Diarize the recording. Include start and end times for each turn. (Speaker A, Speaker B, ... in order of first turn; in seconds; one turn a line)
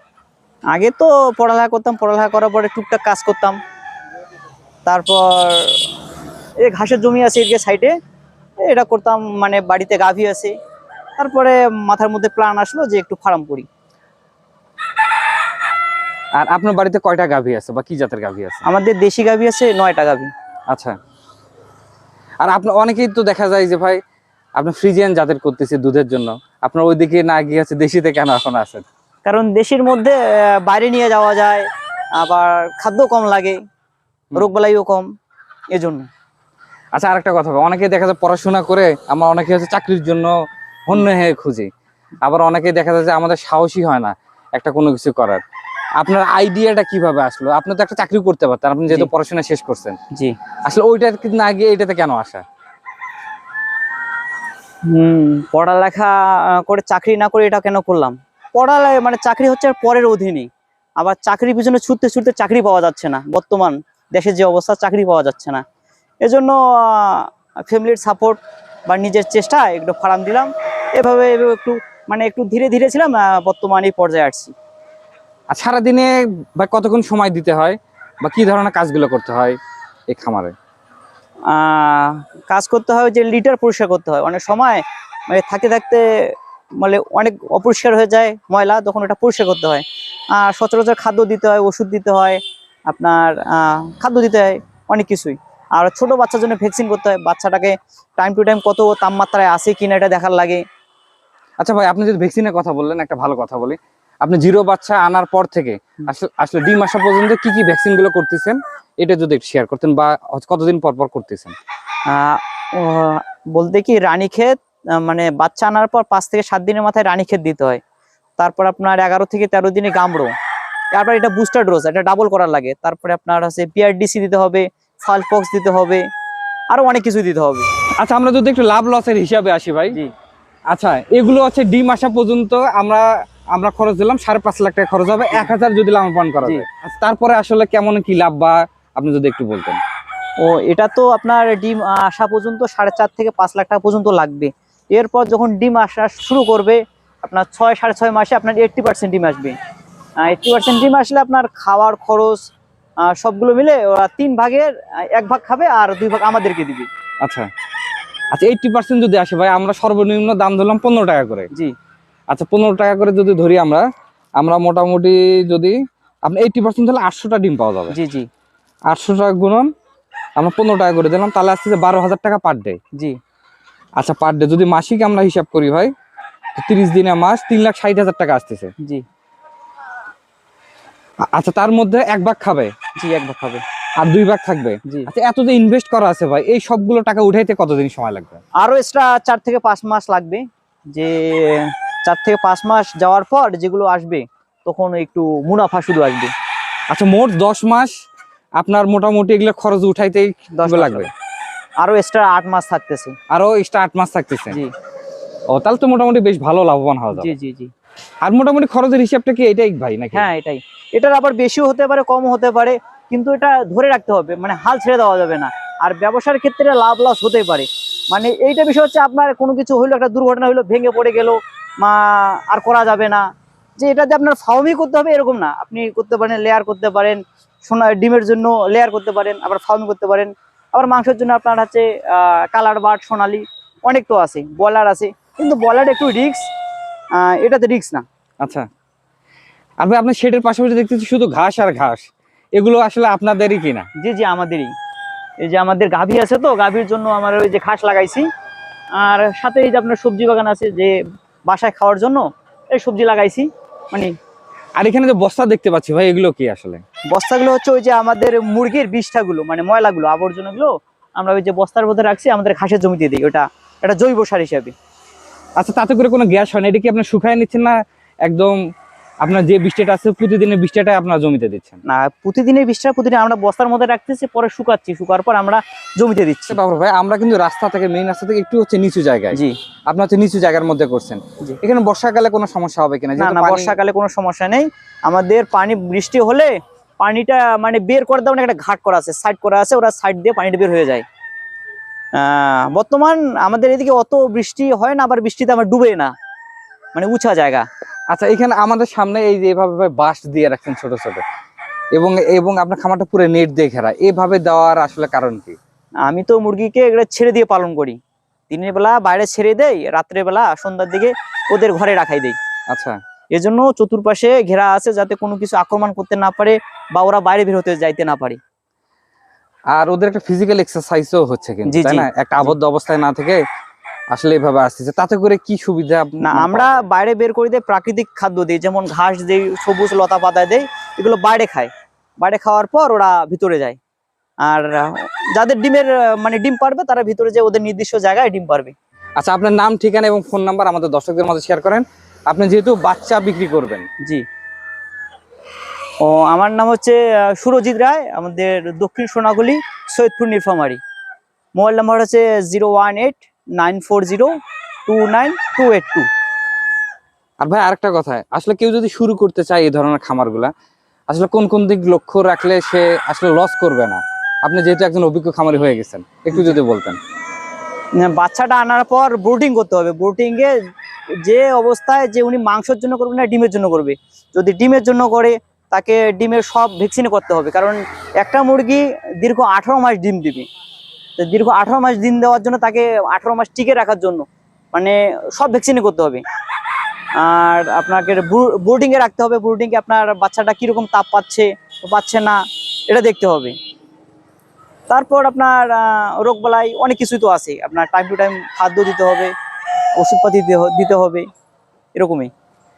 Speaker A: 0.7-3.6
Speaker A: 4.9-5.7
Speaker A: 6.6-7.9
Speaker A: 8.6-10.5
Speaker A: 11.2-13.7
Speaker B: 16.4-18.6
Speaker A: 18.6-20.3
Speaker B: 20.7-21.0
Speaker B: 22.4-24.0
Speaker B: 24.6-28.8
Speaker A: 29.3-31.7
Speaker A: 32.2-33.6
Speaker A: 34.4-35.1
Speaker A: 35.7-36.1
Speaker B: 36.9-40.3
Speaker B: 40.9-41.7
Speaker B: 42.2-45.4
Speaker B: 46.0-50.0
Speaker B: 50.6-52.4
Speaker A: 54.9-65.6
Speaker A: 66.2-74.5
Speaker B: 75.5-79.6
Speaker B: 80.1-80.5
Speaker A: 81.5-100.6
Speaker B: 101.6-111.6
Speaker A: 112.1-117.8
Speaker A: 118.4-120.3
Speaker A: 121.0-126.0
Speaker A: 126.7-127.7
Speaker B: 128.0-130.0
Speaker B: 130.7-139.8
Speaker A: 140.4-149.6
Speaker A: 150.2-152.4
Speaker A: 153.1-156.9
Speaker B: 157.2-157.5
Speaker B: 158.3-161.5
Speaker B: 162.3-163.9
Speaker B: 164.4-168.0
Speaker A: 167.9-168.3
Speaker B: 168.9-169.7
Speaker B: 170.4-172.8
Speaker B: 174.0-175.9
Speaker B: 176.6-178.7
Speaker B: 181.3-182.7
Speaker A: 183.0-183.6
Speaker B: 184.0-188.4
Speaker A: 188.6-196.3
Speaker B: 196.9-197.9
Speaker B: 198.6-201.1
Speaker A: 200.6-201.1
Speaker A: 201.8-203.2
Speaker B: 203.3-204.6
Speaker B: 205.5-207.3
Speaker A: 207.1-207.7
Speaker B: 208.2-210.3
Speaker A: 210.1-223.2
Speaker A: 223.8-236.5
Speaker A: 237.2-238.1
Speaker B: 238.4-238.7
Speaker B: 239.8-243.9
Speaker A: 244.0-244.7
Speaker A: 245.4-248.3
Speaker A: 249.0-251.0
Speaker A: 251.5-254.1
Speaker B: 254.8-256.8
Speaker A: 257.1-264.7
Speaker B: 265.6-268.6
Speaker B: 269.2-271.8
Speaker A: 271.9-276.6
Speaker B: 276.5-283.8
Speaker A: 283.2-291.1
Speaker A: 292.2-296.1
Speaker A: 296.9-297.6
Speaker B: 298.1-301.2
Speaker B: 301.9-305.6
Speaker A: 306.1-308.0
Speaker A: 308.5-312.4
Speaker B: 312.7-313.0
Speaker A: 313.3-318.4
Speaker B: 319.7-323.4
Speaker A: 321.7-322.5
Speaker B: 324.1-326.9
Speaker A: 326.2-333.8
Speaker A: 334.4-338.8
Speaker B: 339.2-343.9
Speaker A: 346.0-350.8
Speaker A: 351.6-354.3
Speaker A: 354.9-356.1
Speaker B: 357.4-360.5
Speaker B: 361.1-367.0
Speaker A: 366.3-366.6
Speaker A: 368.0-370.5
Speaker A: 371.2-380.5
Speaker A: 381.2-386.2
Speaker A: 387.2-393.6
Speaker A: 394.9-399.3
Speaker A: 400.0-401.3
Speaker A: 402.0-402.3